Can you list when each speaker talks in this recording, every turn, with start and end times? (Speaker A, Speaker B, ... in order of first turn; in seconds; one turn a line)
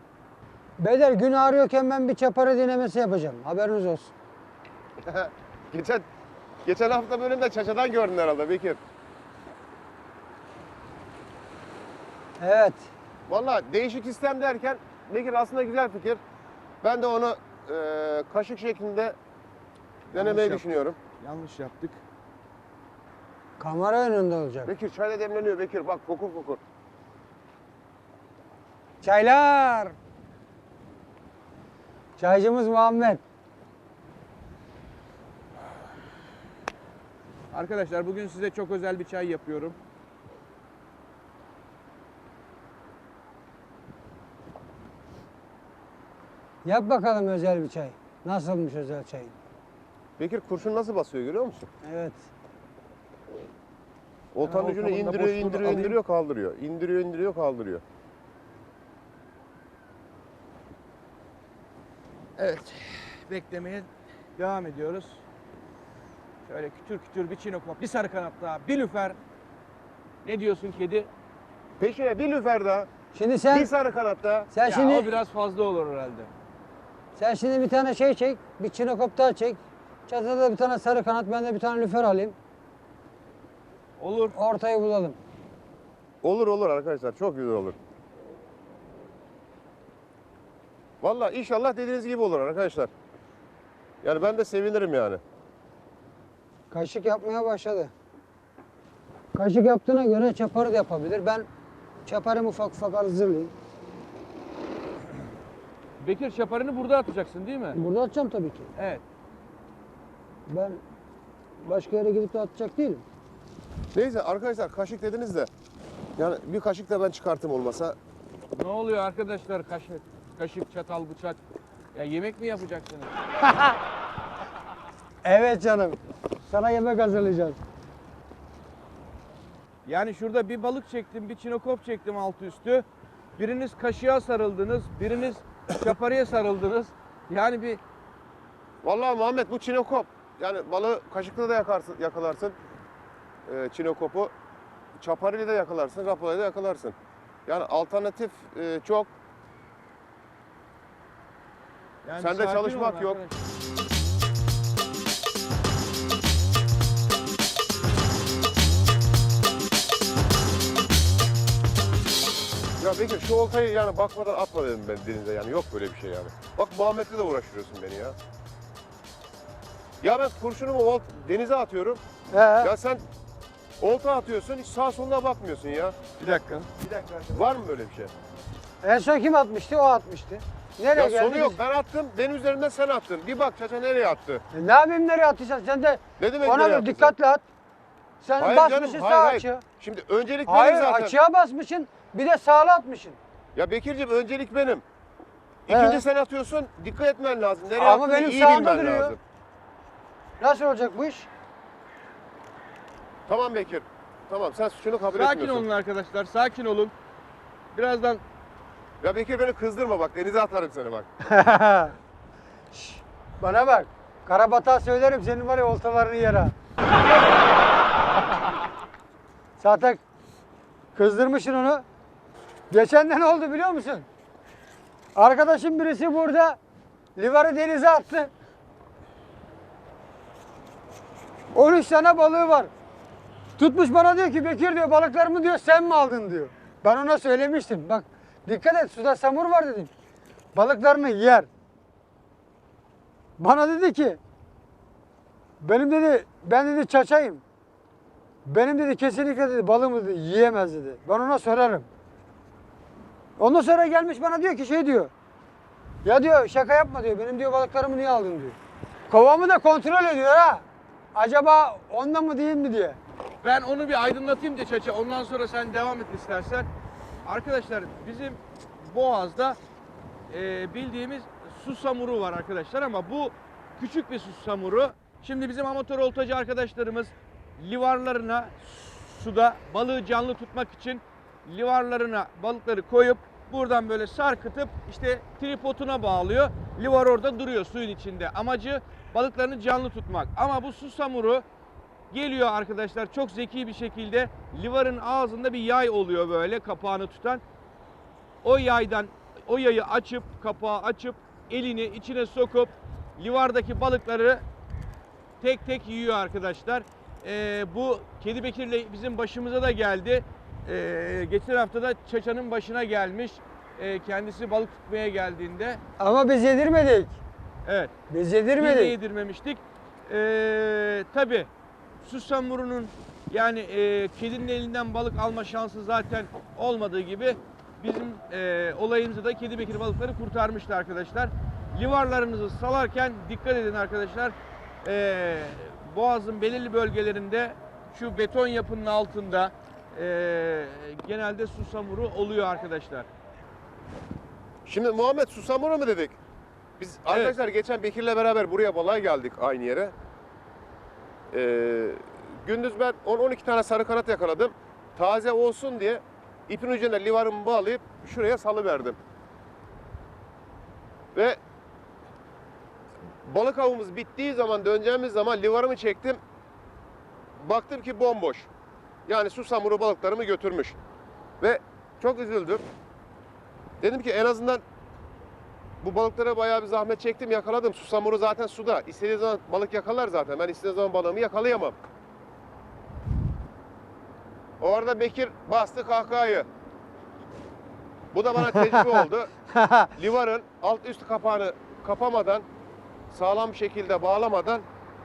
Speaker A: 0.8-4.1
Speaker B: 5.0-6.0
Speaker B: 6.7-8.8
Speaker A: 12.4-12.9
Speaker B: 13.3-16.2
Speaker B: 16.8-19.2
Speaker C: 20.1-22.0
Speaker B: 20.1-21.0
Speaker A: 23.6-24.7
Speaker B: 24.6-26.6
Speaker A: 29.0-30.0
Speaker A: 32.2-33.2
Speaker C: 37.5-39.8
Speaker A: 46.6-49.4
Speaker B: 50.2-51.7
Speaker A: 51.8-52.2
Speaker B: 54.3-57.8
Speaker C: 54.4-56.0
Speaker C: 62.4-65.2
Speaker C: 66.5-69.2
Speaker C: 70.2-71.1
Speaker B: 71.8-72.9
Speaker A: 73.1-73.7
Speaker B: 73.5-74.5
Speaker A: 74.5-75.2
Speaker C: 74.6-76.3
Speaker A: 77.2-82.4
Speaker C: 84.0-84.4
Speaker A: 84.3-85.2
Speaker B: 86.2-87.8
Speaker B: 91.0-92.9
Speaker B: 94.0-95.2
Speaker A: 96.7-97.9
Speaker A: 99.3-101.5
Speaker A: 102.1-103.5
Speaker C: 106.0-107.8
Speaker A: 107.7-108.7
Speaker C: 108.8-109.0
Speaker A: 110.5-110.8
Speaker A: 111.6-113.0
Speaker B: 113.9-115.5
Speaker B: 116.2-118.0
Speaker C: 118.5-121.4
Speaker C: 121.9-123.2
Speaker A: 123.5-123.8
Speaker A: 125.2-127.6
Speaker C: 129.9-132.9
Speaker C: 133.4-137.8
Speaker B: 138.8-142.6
Speaker B: 143.5-144.3
Speaker B: 145.0-146.9
Speaker B: 147.5-149.1
Speaker C: 152.1-153.5
Speaker B: 152.2-153.2
Speaker B: 162.8-168.2
Speaker B: 170.0-172.0
Speaker A: 172.3-172.7
Speaker B: 172.6-173.0
Speaker B: 173.8-176.0
Speaker C: 176.2-176.8
Speaker B: 177.0-178.1
Speaker A: 178.8-181.6
Speaker B: 180.9-184.4
Speaker A: 184.5-187.4
Speaker B: 186.2-187.1
Speaker A: 188.2-189.6
Speaker B: 188.4-191.2
Speaker A: 190.5-193.2
Speaker B: 193.6-194.8
Speaker B: 195.7-199.2
Speaker A: 195.7-196.0
Speaker A: 197.8-199.2
Speaker A: 200.4-201.3
Speaker B: 203.3-205.6
Speaker C: 205.2-206.9
Speaker C: 207.7-208.2
Speaker B: 209.0-211.1
Speaker A: 211.2-212.0
Speaker A: 212.7-216.6
Speaker A: 219.6-220.0
Speaker A: 220.9-221.8
Speaker A: 222.7-224.1
Speaker A: 225.2-226.6
Speaker A: 227.2-228.3
Speaker A: 231.5-232.7
Speaker A: 233.6-239.9
Speaker A: 240.5-241.5
Speaker A: 243.4-244.2
Speaker A: 245.6-247.4
Speaker A: 248.4-251.9
Speaker A: 253.4-255.1
Speaker A: 256.0-258.6
Speaker A: 259.1-263.0
Speaker C: 263.4-266.7
Speaker C: 267.2-269.6
Speaker C: 270.3-291.4
Speaker C: 292.1-297.4
Speaker C: 298.4-304.4
Speaker C: 305.4-315.8
Speaker A: 316.0-317.2
Speaker C: 317.7-317.9
Speaker A: 318.1-319.0
Speaker C: 318.6-321.5
Speaker C: 322.0-343.1
Speaker B: 344.7-346.2
Speaker B: 346.8-349.9
Speaker C: 347.1-347.4
Speaker B: 351.3-359.0
Speaker B: 363.2-366.2
Speaker B: 367.4-368.5
Speaker B: 369.1-370.8
Speaker B: 371.4-372.6
Speaker B: 373.8-374.6
Speaker B: 375.8-381.8
Speaker B: 384.6-386.5
Speaker B: 388.1-389.3
Speaker A: 388.4-389.9
Speaker B: 389.9-392.5
Speaker B: 393.1-394.6